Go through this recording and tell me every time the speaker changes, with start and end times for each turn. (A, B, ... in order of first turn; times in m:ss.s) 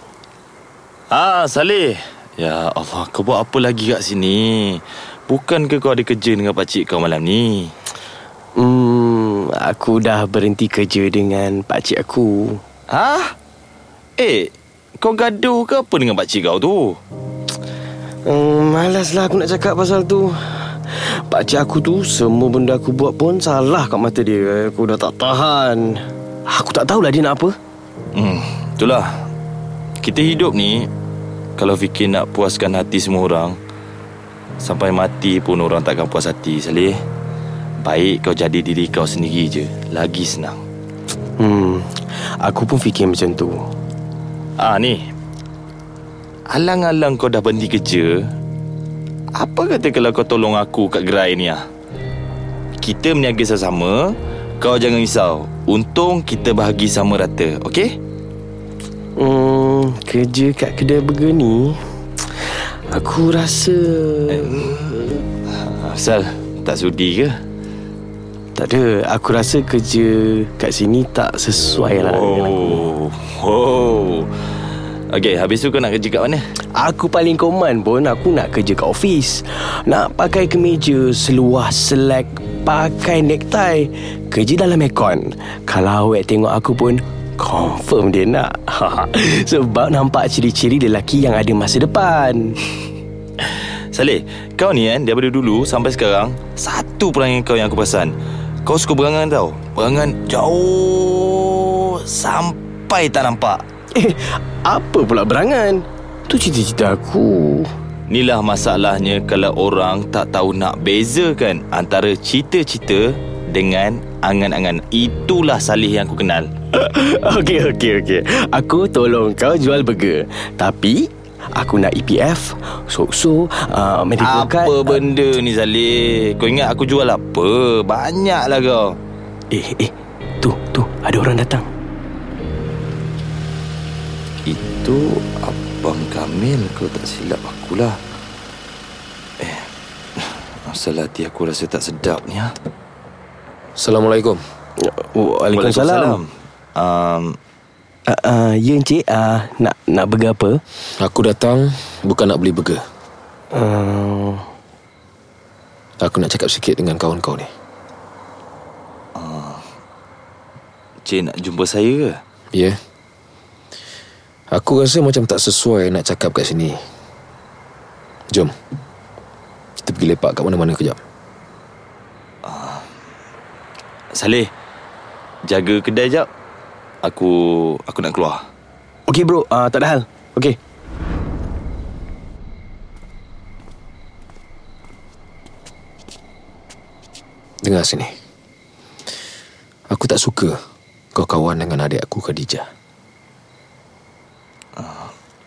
0:01.1-0:07.7 A
0:08.6-0:12.6 B
0:12.9-0:13.3 A
0:14.2-0:17.0 A
0:18.2-0:25.9 B
0:26.5-0:27.5 B
0:28.1-0:29.1 A
0:30.0-0:30.9 A
0:31.6-0:33.6 A
0:34.6-0:37.0 A
0:37.8-0:40.6 A
0:41.4-0:43.6 B
0:44.6-0:45.0 A
0:46.5-0:48.2 A
0:49.4-0:51.6 A
0:52.8-0:54.1 A
0:54.6-0:57.9 A
0:59.2-1:01.8 B
1:02.4-1:05.2 B
1:04.3-1:04.6 A
1:05.6-1:07.4 A
1:08.6-1:12.8 B
1:11.9-1:14.3 A
1:15.1-1:16.4 A
1:16.8-1:32.6 B
1:33.4-1:38.1 A
1:38.6-1:43.6 A
1:43.9-1:47.7 B
1:48.1-1:56.5 A
1:56.7-2:05.0 B
2:04.2-2:08.9 A
2:09.5-2:11.6 B
2:14.4-2:18.0 A
2:19.4-2:22.5 A
2:23.8-2:24.4 C
2:24.8-2:26.2 B
2:25.5-2:27.4 A
2:28.1-2:30.6 B
2:31.0-2:32.8 C
2:33.5-2:34.4 B
2:36.0-2:37.5 C
2:39.1-2:39.6 A
2:41.0-2:42.2 A
2:42.5-2:42.8 C
2:44.5-2:46.8 C
2:49.8-2:51.0 C
2:52.4-2:52.8 A
2:54.1-2:54.5 A
2:55.4-2:56.3 A
2:57.0-2:58.4 A
2:59.1-3:00.6 B
3:07.6-3:08.1 C
3:09.9-3:10.6 C
3:11.1-3:12.7 C
3:14.8-3:15.1 A